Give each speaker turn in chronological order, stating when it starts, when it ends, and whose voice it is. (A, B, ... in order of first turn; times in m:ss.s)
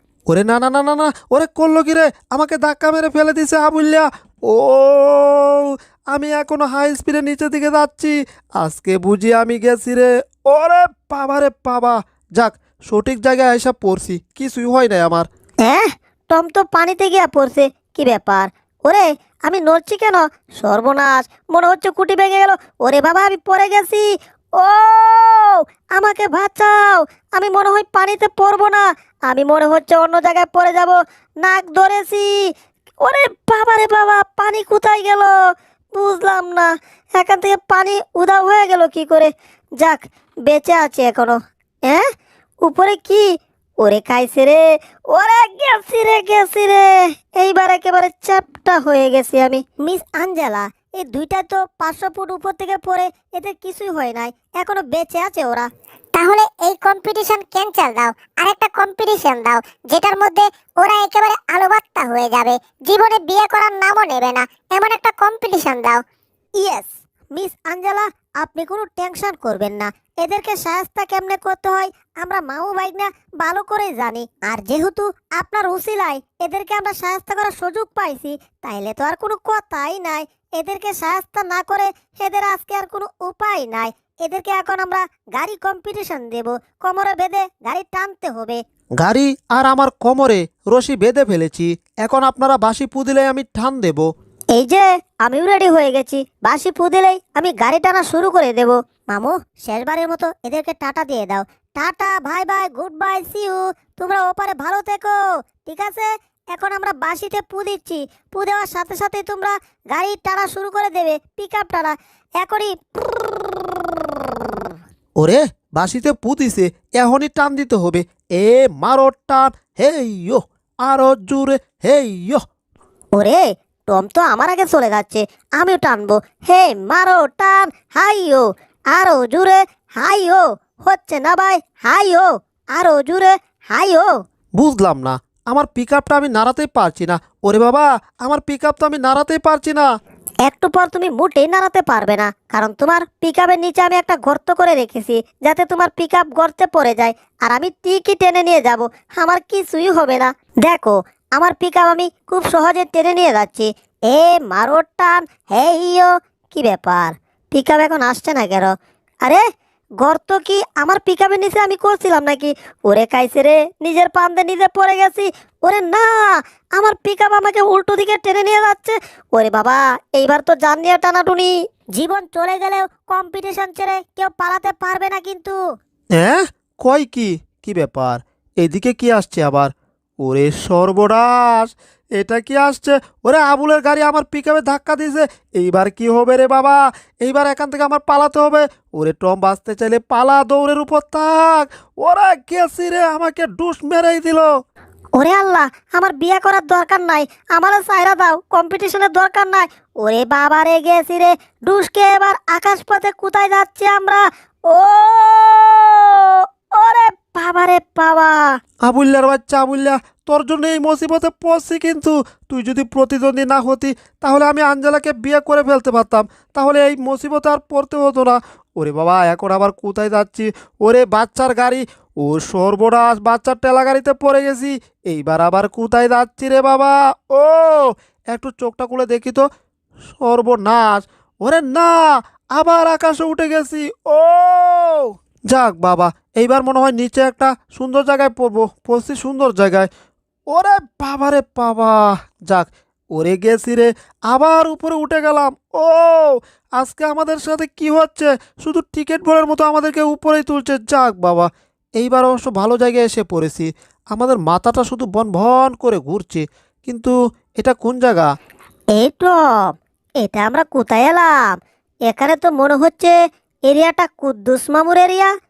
0:00.3-0:15.3 A
0:15.6-0:24.1 B
0:24.6-0:32.4 B
0:33.0-0:35.3 B
0:35.9-0:42.1 B
0:42.6-0:43.3 B
0:43.8-0:55.7 B
0:56.1-1:06.0 C
1:06.6-1:28.6 B
1:29.0-1:34.1 A
1:34.5-1:54.7 B
1:55.2-2:02.4 A
2:03.2-2:14.1 B
2:14.6-2:19.9 A
2:20.4-2:38.7 B
2:40.0-2:55.6 B
2:56.2-3:14.5 A
3:15.2-3:28.6 B
3:28.8-3:49.4 A
3:50.2-3:59.9 A
4:00.5-4:18.3 A
4:19.0-4:21.4 B
4:22.1-4:23.2 B
4:23.7-4:25.3 B